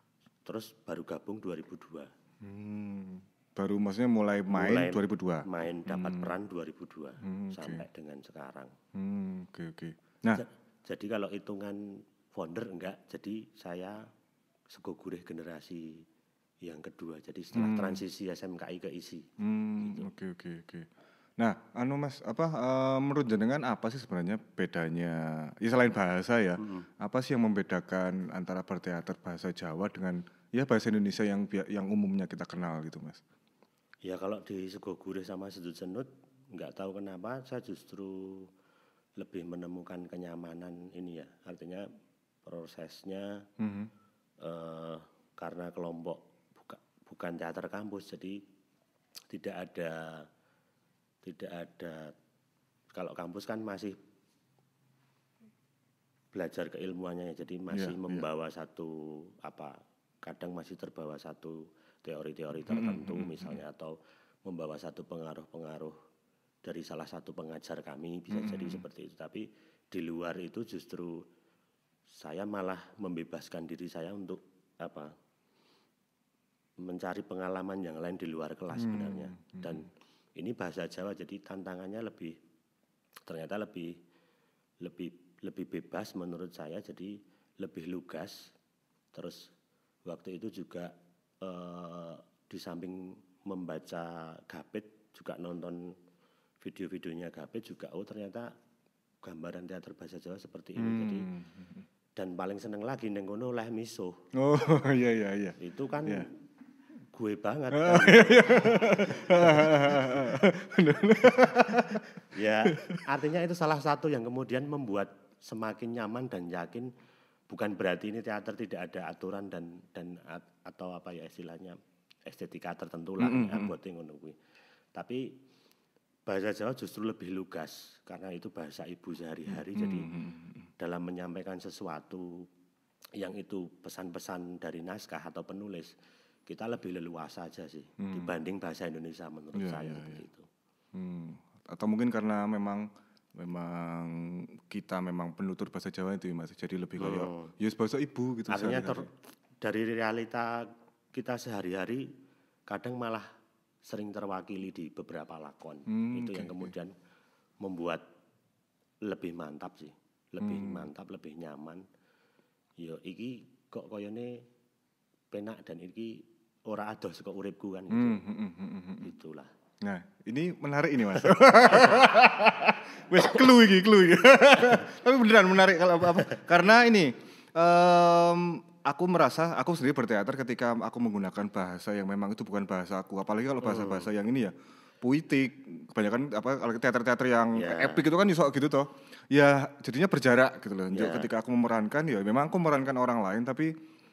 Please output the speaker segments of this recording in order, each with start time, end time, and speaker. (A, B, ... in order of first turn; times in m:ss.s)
0:00.4-0:02.1 A
0:02.4-0:06.3 B
0:04.5-0:08.7 A
0:07.2-0:07.8 B
0:08.9-0:10.4 B
0:10.3-0:14.0 A
0:14.7-0:16.0 A
0:16.6-0:19.2 A
0:17.5-0:18.0 B
0:19.4-0:33.2 B
0:19.8-0:20.1 A
0:26.6-0:26.9 A
0:34.0-0:38.5 A
0:39.2-0:41.9 A
0:42.4-0:43.4 A
0:43.6-0:43.9 B
0:44.4-0:48.4 A
0:49.3-0:50.2 A
0:51.2-0:52.1 A
0:52.9-0:54.0 A
0:56.3-1:05.9 A
0:57.7-0:58.2 B
1:02.7-1:03.6 B
1:06.6-1:11.2 A
1:08.3-1:08.8 B
1:12.1-1:15.1 A
1:16.8-1:22.4 A
1:18.7-1:19.8 B
1:23.2-1:24.0 A
1:24.8-1:28.5 A
1:29.1-1:29.5 A
1:30.0-1:35.9 A
1:36.6-1:38.5 A
1:39.2-1:41.3 A
1:40.8-1:41.8 B
1:42.2-1:44.2 A
1:44.3-1:46.3 B
1:45.6-1:46.3 A
1:47.1-1:50.3 A
1:47.7-1:53.0 B
1:52.3-1:56.9 A
1:57.5-2:01.8 A
2:02.3-2:04.4 A
2:03.2-2:03.7 B
2:04.9-2:05.3 A
2:06.3-2:10.1 A
2:09.5-2:10.7 B
2:10.8-2:12.5 A
2:13.2-2:15.9 A
2:16.5-2:20.5 A
2:18.0-2:18.3 B
2:19.5-2:20.2 B
2:20.9-2:29.1 B
2:27.0-2:27.5 A
2:28.5-2:32.0 A
2:32.7-2:33.2 A
2:33.8-2:36.9 A
2:35.9-2:36.7 B
2:37.6-2:38.0 A
2:39.0-2:41.8 A
2:40.4-2:40.9 B
2:42.8-2:44.4 A
2:45.3-2:48.2 A
2:47.9-2:49.1 B
2:49.0-2:49.5 A
2:49.8-3:13.7 B
2:51.2-2:52.0 A
3:03.6-3:04.1 A
3:07.5-3:08.0 A
3:10.9-3:11.3 A